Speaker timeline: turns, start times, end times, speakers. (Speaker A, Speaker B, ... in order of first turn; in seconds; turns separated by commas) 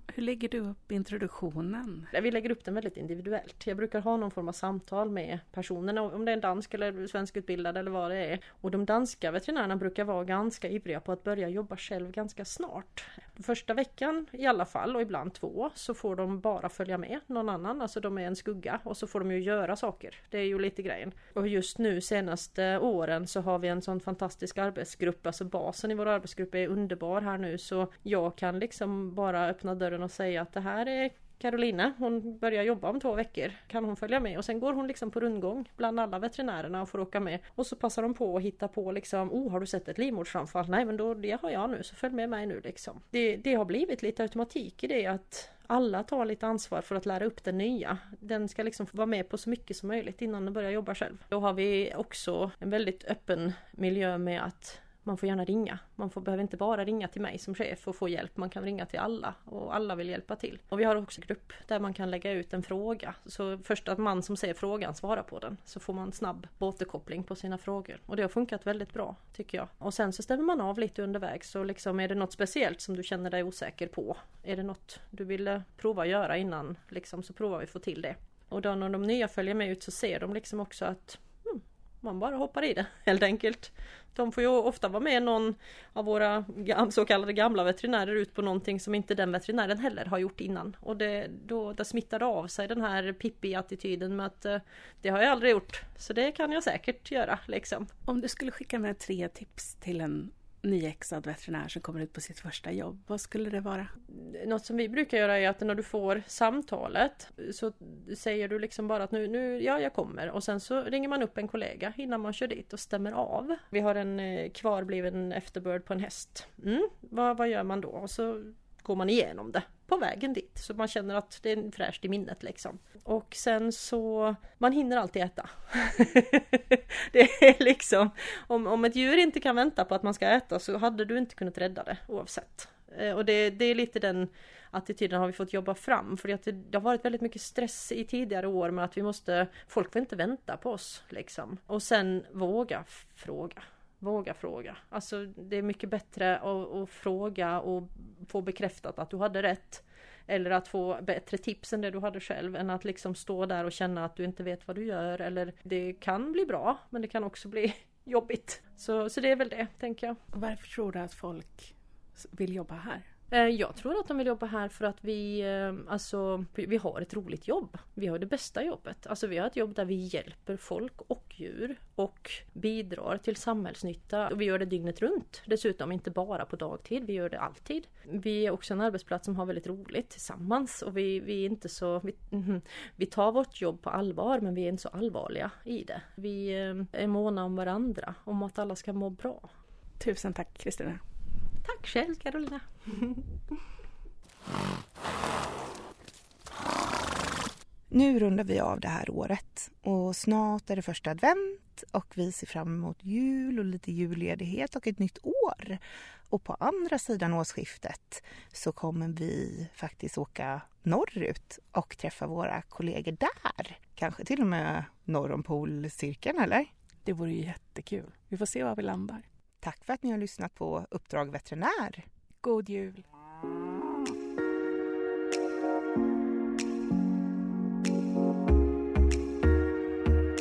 Speaker A: 0.1-2.1, Speaker B: 2.1-97.9, Speaker A: 98.1-103.9, Speaker B: 104.1-160.2, Speaker A: 160.3-163.1, Speaker B: 163.3-189.5, Speaker A: 190.0-191.0, Speaker B: 191.6-193.2, Speaker C: 197.9-216.7, Speaker A: 217.0-219.2, Speaker C: 219.6-222.0, Speaker A: 222.4-223.0